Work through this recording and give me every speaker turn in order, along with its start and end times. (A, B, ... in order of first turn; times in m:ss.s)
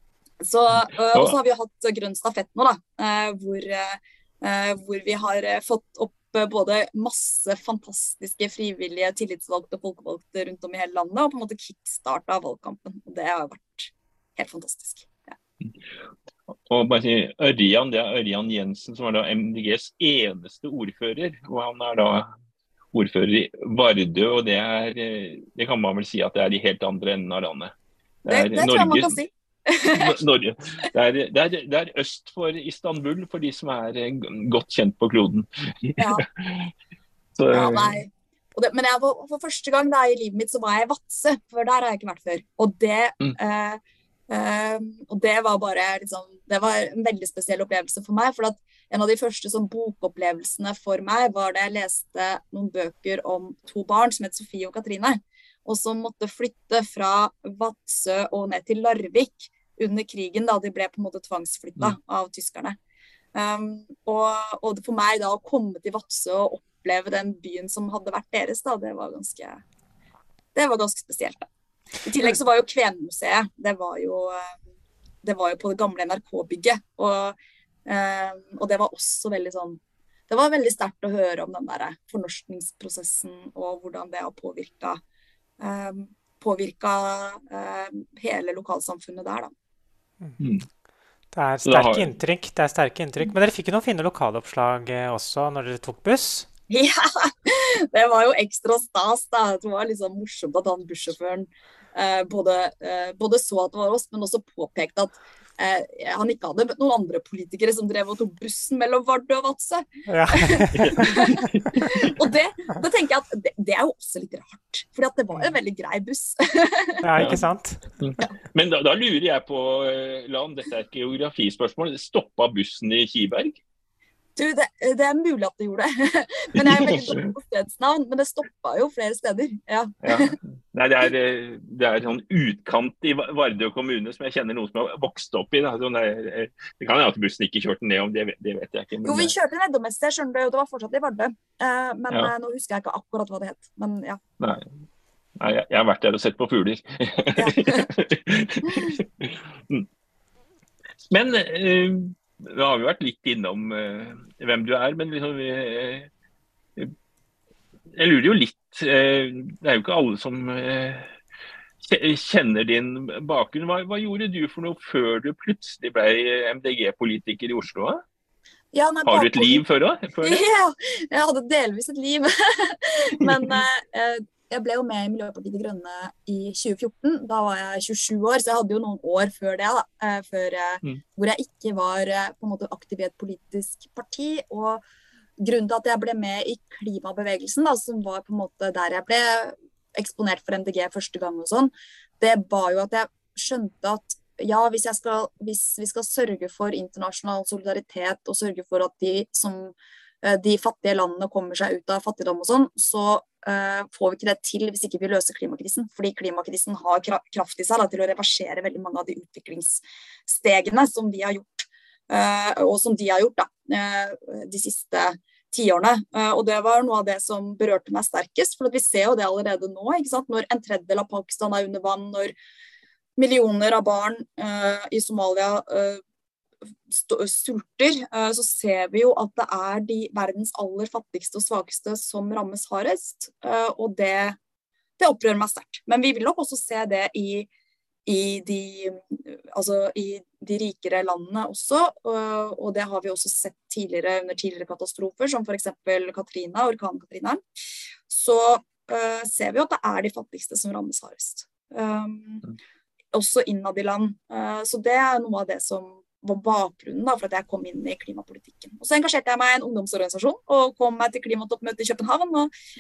0:00.4-0:15.4 A
0:16.7-0:22.3 B
0:22.9-0:27.7 B
0:28.2-0:29.2 B
0:28.3-0:30.2 A
0:29.9-0:36.7 B
0:36.0-0:36.2 A
0:37.4-0:38.0 B
0:37.5-1:02.8 A
1:03.4-1:09.6 A
1:10.6-1:11.5 A
1:12.0-1:14.5 A
1:15.2-1:25.0 A
1:25.6-1:29.5 A
1:30.4-1:30.6 B
1:31.3-1:36.5 C
1:31.6-1:32.1 B
1:36.7-1:57.1 A
1:50.1-1:51.2 C
1:50.7-1:52.1 B
1:57.0-1:57.8 C
1:57.2-1:57.4 B
1:58.0-2:03.6 B
2:04.4-2:10.4 A
2:06.6-2:07.2 B
2:10.0-2:19.3 B
2:19.0-2:24.2 A
2:24.4-2:24.7 B
2:25.4-2:29.9 B
2:27.4-2:27.9 A
2:28.7-2:29.0 A
2:31.1-2:36.1 B
2:37.9-2:41.1 B
2:41.8-2:48.0 B
2:48.7-2:49.6 A
2:49.0-2:50.4 B
2:50.2-3:04.8 A
2:53.3-2:53.6 B
3:05.4-3:42.4 A
3:43.2-3:46.0 A
3:46.9-3:54.4 A
3:55.0-3:57.5 A
3:58.1-4:07.4 A
4:08.1-4:12.4 A
4:13.1-4:22.5 A